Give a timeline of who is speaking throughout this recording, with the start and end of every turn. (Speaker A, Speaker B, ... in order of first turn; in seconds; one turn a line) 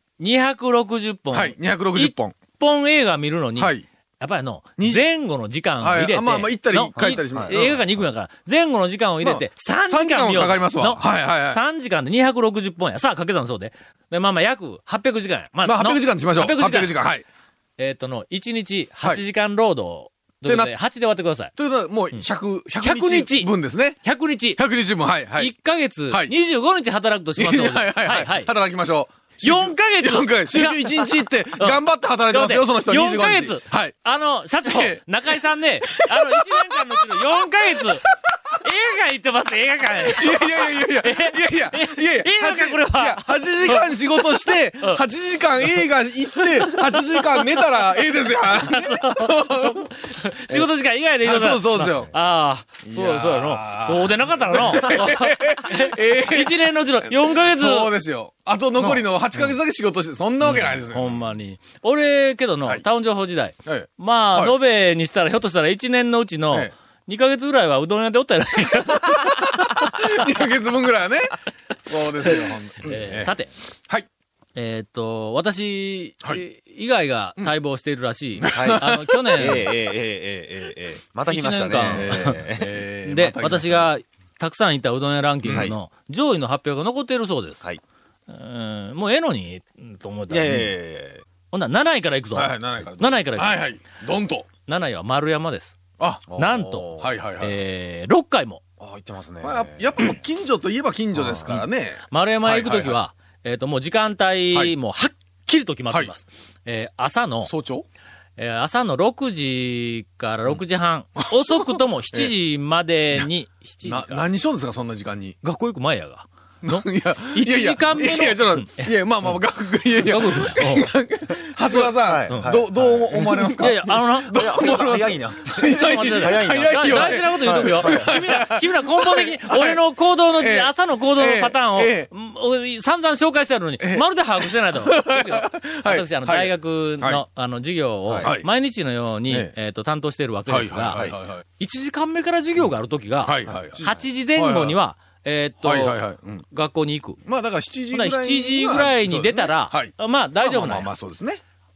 Speaker A: 0.2-16.9
Speaker B: 1.3-2.3
Speaker B: 3.6-3.8
Speaker B: 4.8-5.0
Speaker B: 5.8-7.8
Speaker C: 7.0-7.6
Speaker B: 9.2-11.6
Speaker B: 15.6-17.2
Speaker A: 17.8-21.5
Speaker B: 20.4-20.7
Speaker B: 21.6-24.0
Speaker A: 22.8-23.5
Speaker A: 24.0-24.6
Speaker B: 24.6-25.5
Speaker A: 25.4-28.5
Speaker B: 26.1-26.3
Speaker B: 27.4-34.0
Speaker A: 29.4-45.0
Speaker B: 34.6-37.2
Speaker B: 40.1-49.9
Speaker A: 46.4-57.9
Speaker B: 51.2-52.1
Speaker B: 52.8-61.2
Speaker A: 58.8-59.0
Speaker A: 60.4-70.0
Speaker B: 63.6-64.5
Speaker B: 69.8-73.3
Speaker A: 72.2-73.5
Speaker A: 74.5-79.8
Speaker B: 78.4-79.2
Speaker C: 78.5-82.7
Speaker A: 81.3-82.4
Speaker B: 82.5-83.9
Speaker A: 83.0-87.6
Speaker B: 85.5-85.7
Speaker C: 85.5-85.7
Speaker A: 88.3-90.7
Speaker C: 90.3-91.2
Speaker A: 91.5-93.6
Speaker B: 92.3-94.5
Speaker A: 94.7-95.8
Speaker B: 96.0-97.5
Speaker C: 96.3-97.1
Speaker A: 96.3-98.6
Speaker C: 98.8-100.1
Speaker B: 99.4-103.0
Speaker C: 101.1-101.6
Speaker A: 102.1-107.5
Speaker B: 107.4-107.8
Speaker A: 108.4-114.3
Speaker B: 111.2-112.3
Speaker B: 113.8-115.4
Speaker A: 115.4-119.3
Speaker B: 116.6-129.8
Speaker A: 120.0-120.9
Speaker C: 121.7-123.8
Speaker A: 121.7-122.5
Speaker A: 123.6-124.5
Speaker C: 124.3-128.1
Speaker A: 125.7-147.2
Speaker B: 130.4-132.1
Speaker B: 133.8-137.2
Speaker B: 138.2-138.5
Speaker B: 139.3-139.5
Speaker B: 140.5-141.4
Speaker B: 143.2-144.8
Speaker C: 143.7-144.0
Speaker B: 145.6-146.4
Speaker B: 147.2-151.4
Speaker A: 147.9-150.9